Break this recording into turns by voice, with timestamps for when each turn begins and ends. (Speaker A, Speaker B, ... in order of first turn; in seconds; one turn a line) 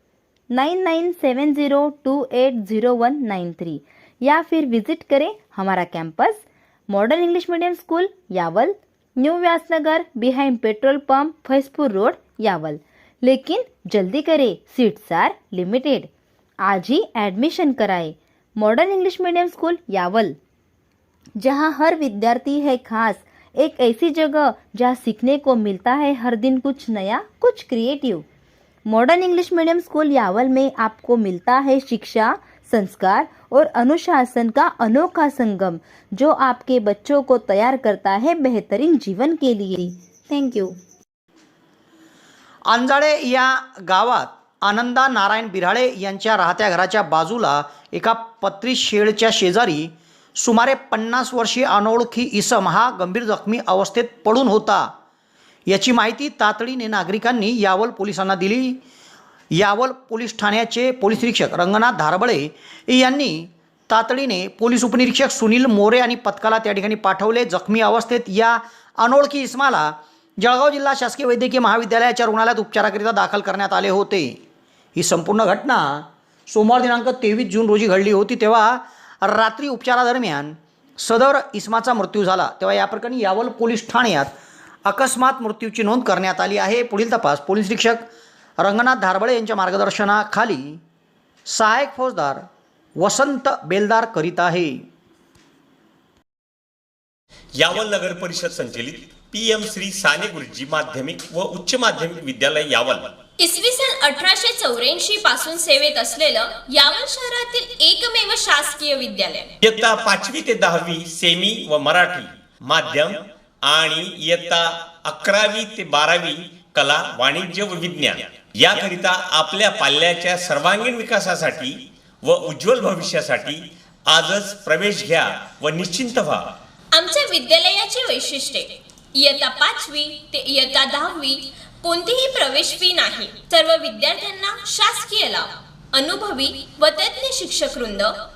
Speaker A: 0.5-16.1
Speaker A: 16.6-20.4
Speaker A: 21.4-28.2
Speaker A: 28.9-40.7
Speaker B: 42.7-54.9
Speaker B: 55.7-58.8
Speaker B: 59.5-74.4
Speaker B: 75.0-84.3
Speaker B: 84.8-88.0
Speaker B: 88.6-90.8
Speaker B: 91.5-92.4
Speaker B: 93.0-94.8
Speaker C: 97.5-103.1
Speaker D: 103.4-109.5
Speaker C: 109.6-126.5
Speaker D: 126.9-138.1